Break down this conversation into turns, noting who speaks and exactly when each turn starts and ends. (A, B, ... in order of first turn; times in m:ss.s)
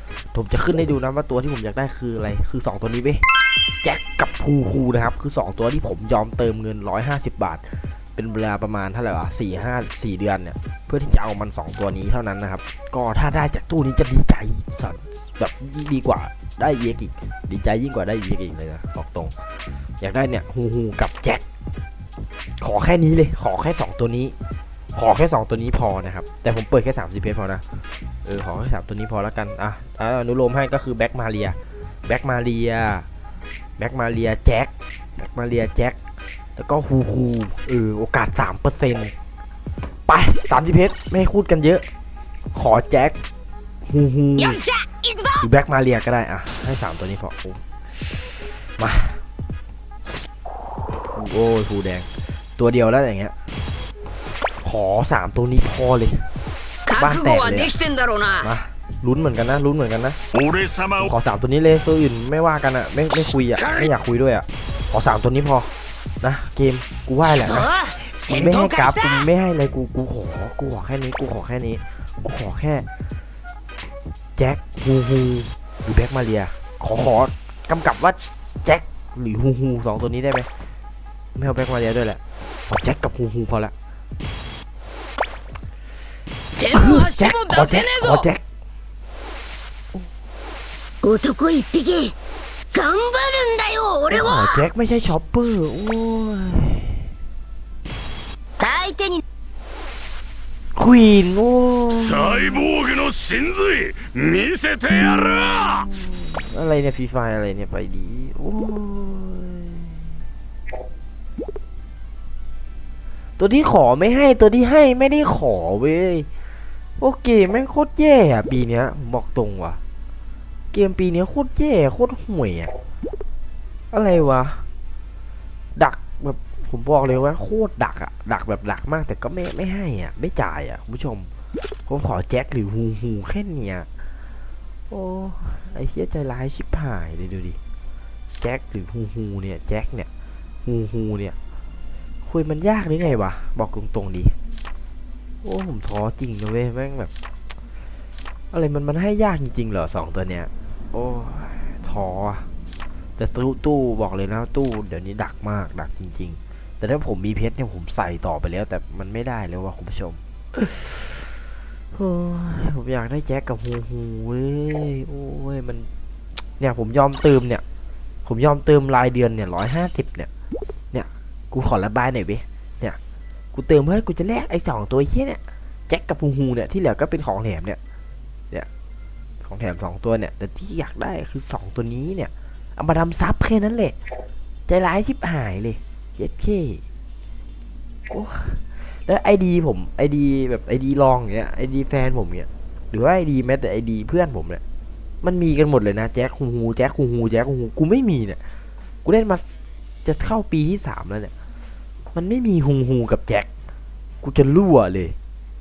0:00.3-0:03.2 A
0:03.8-0:19.3 A
0:20.0-0:21.4 A
0:22.6-0:24.4 A
0:25.0-0:27.6 A
0:28.2-0:33.1 A
0:33.8-0:36.0 A
0:36.6-0:39.1 A
0:40.1-0:41.8 A
0:42.5-0:43.2 A
0:43.8-0:44.6 A
0:44.4-0:45.5 B
0:45.4-0:49.2 A
0:51.1-0:53.3 A
0:54.6-0:56.3 A
0:56.9-0:58.5 B
0:57.0-0:57.7 A
0:58.4-1:00.2 A
1:00.3-1:01.1 C
1:01.0-1:05.7 A
1:03.6-1:03.9 B
1:06.2-1:07.7 A
1:07.3-1:09.3 B
1:08.2-1:12.9 A
1:14.4-1:20.5 A
1:21.4-1:23.7 A
1:26.6-1:28.3 B
1:26.6-1:28.4 A
1:31.0-1:32.1 B
1:32.7-1:34.6 B
1:34.1-1:37.1 A
1:38.6-1:39.2 B
1:40.8-1:42.6 A
1:41.9-1:45.8 C
1:45.5-1:50.0 A
1:53.4-1:56.3 A
1:57.0-1:59.8 A
2:00.7-2:02.7 A
2:03.9-2:04.6 A
2:05.8-2:11.3 A
2:11.9-2:13.9 A
2:14.9-2:17.6 A
2:18.4-2:20.1 A
2:20.6-2:21.4 A
2:22.3-2:24.4 A
2:25.4-2:27.1 A
2:28.5-2:32.5 A
2:33.2-2:41.2 A
2:41.9-2:45.9 A
2:46.6-2:47.6 A
2:48.2-2:50.3 A
2:50.9-2:53.0 A
2:53.5-2:57.8 A
2:59.4-3:04.0 A
3:04.7-3:06.8 A
3:08.1-3:14.6 A
3:15.2-3:18.4 A
3:19.0-3:19.4 A
3:20.0-3:21.3 A
3:22.1-3:23.5 A
3:24.2-3:25.2 A